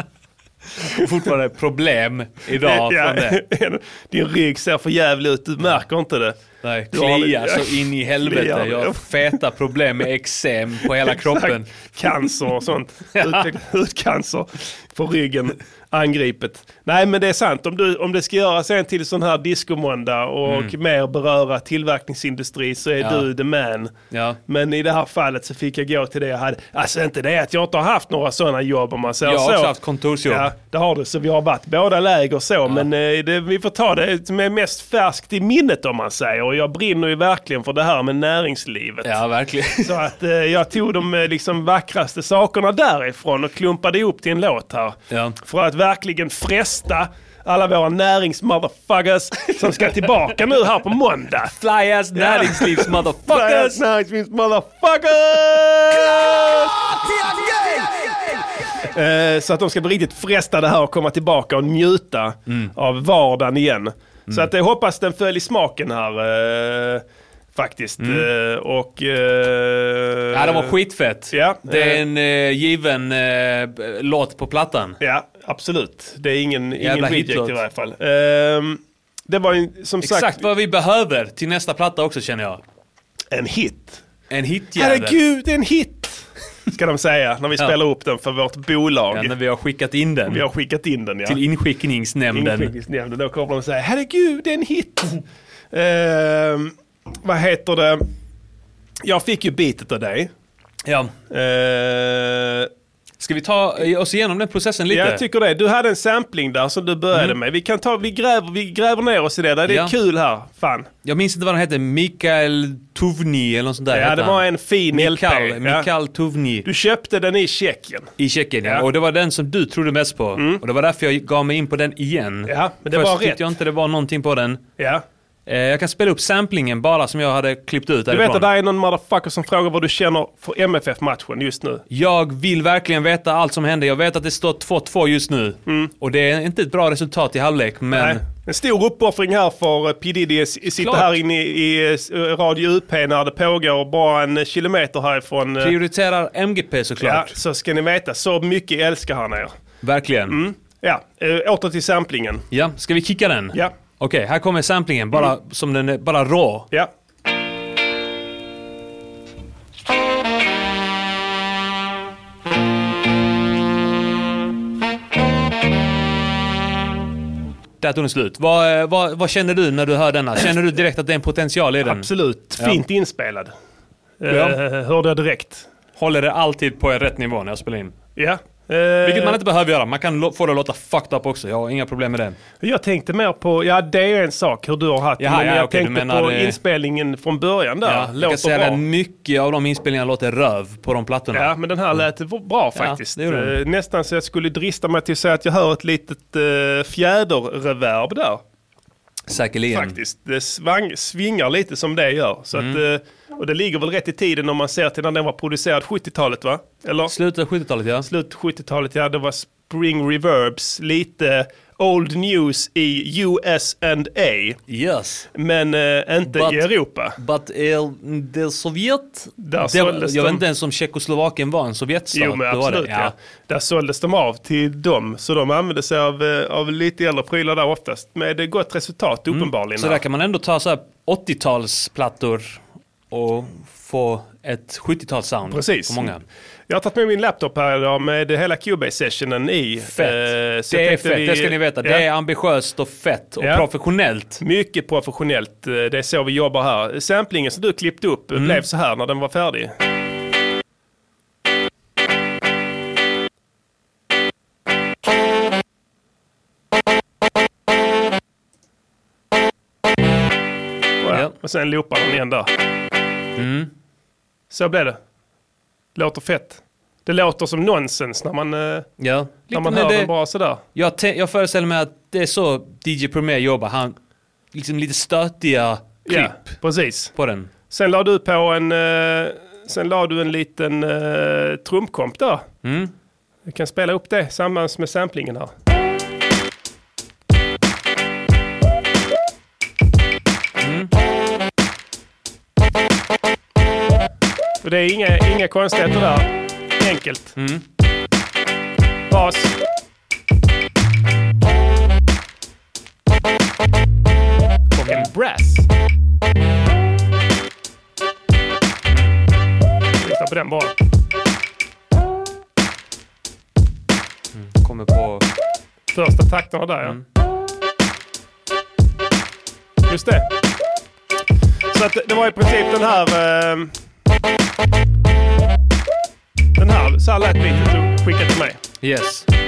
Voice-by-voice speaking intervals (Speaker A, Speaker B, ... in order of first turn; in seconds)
Speaker A: 0.8-3.4, 6.6-11.9, 13.2-13.5, 20.4-20.7, 23.0-23.3, 24.1-24.4, 29.2-30.5, 39.0-40.0, 45.1-45.4, 51.5-53.8, 62.5-62.7, 68.0-68.3, 70.3-75.0, 76.8-77.6, 80.0-82.6, 84.3-85.2, 89.1-90.4, 91.2-92.7, 100.8-101.1, 103.2-105.2, 109.7-109.9, 111.0-116.7, 118.2-124.6, 125.5-128.5, 131.9-138.2, 140.8-141.1, 145.6-147.3, 149.8-150.4, 152.5-156.7, 167.8-172.8, 174.3-174.6, 176.0-177.9, 179.0-182.4, 185.2-186.6, 187.8-192.0, 192.8-193.6, 199.3-200.0, 202.5-202.8, 207.1-208.1, 214.7-215.3, 216.3-223.1, 229.3-236.2, 239.9-244.4, 248.3-248.6, 263.4-263.7, 269.0-270.1, 270.7-274.0, 274.5-276.6, 277.1-277.5, 282.6-282.9, 290.6-290.9, 297.4-297.6, 304.7-305.1, 314.3-315.2, 328.8-329.3
Speaker B: 2.6-6.4, 6.9-9.3, 11.0-23.9, 24.5-29.7, 30.3-39.1, 39.8-51.5, 52.1-56.7, 58.8-67.0, 67.5-70.7, 71.3-72.0, 75.0-80.4, 83.3-84.0, 84.8-89.3, 90.3-91.4, 92.3-98.0, 99.0-100.3, 101.3-102.7, 104.9-110.9, 113.9-115.9, 116.6-118.1, 120.3-120.6, 122.5-123.4, 124.8-125.0, 128.1-131.8, 137.9-145.7, 147.0-149.5, 150.3-152.4, 171.8-173.5, 174.2-175.7, 178.2-179.4, 182.6-188.8, 191.3-198.4, 199.7-207.1, 208.0-214.6, 215.3-217.2, 219.4-220.4, 222.1-230.0, 235.5-236.1, 236.7-242.0, 243.4-243.7, 244.4-249.7, 261.0-262.5, 264.5-265.0, 265.9-268.9, 269.5-270.6, 276.1-277.1, 277.7-282.4, 283.4-285.5, 294.6-297.4, 299.1-299.5, 304.9-305.6, 310.0-310.7, 315.9-317.0, 319.9-320.3, 321.7-323.7, 326.6-328.6